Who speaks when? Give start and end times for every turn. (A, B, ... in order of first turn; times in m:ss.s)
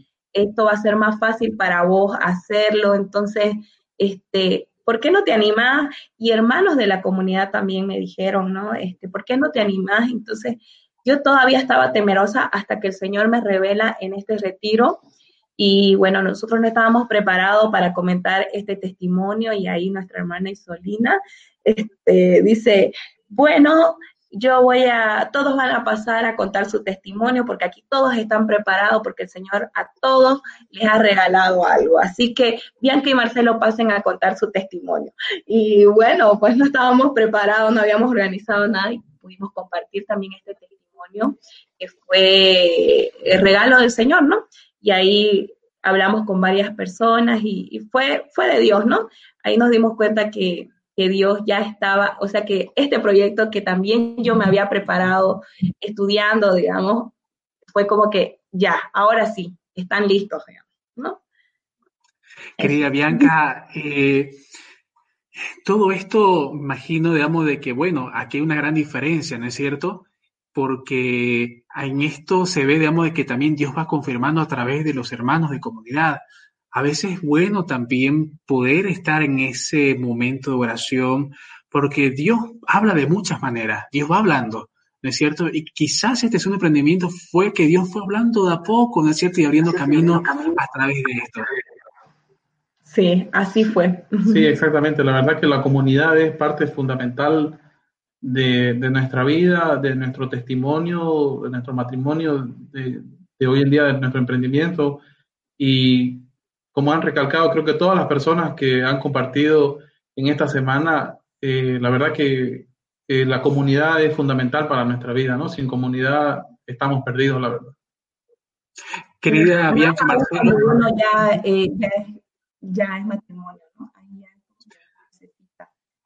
0:00.3-0:15.0 A
0:15.6-0:57.1 A
0:57.7-1:01.2 A
1:02.6-1:04.4 B
1:02.6-1:03.3 A
1:05.6-1:16.2 B
1:16.7-1:31.5 B
1:30.2-1:30.6 A
1:32.9-1:34.5 A
1:34.2-1:37.6 C
1:38.2-1:45.0 C
1:45.6-1:57.8 C
1:59.2-2:00.8 B
1:59.3-2:05.7 A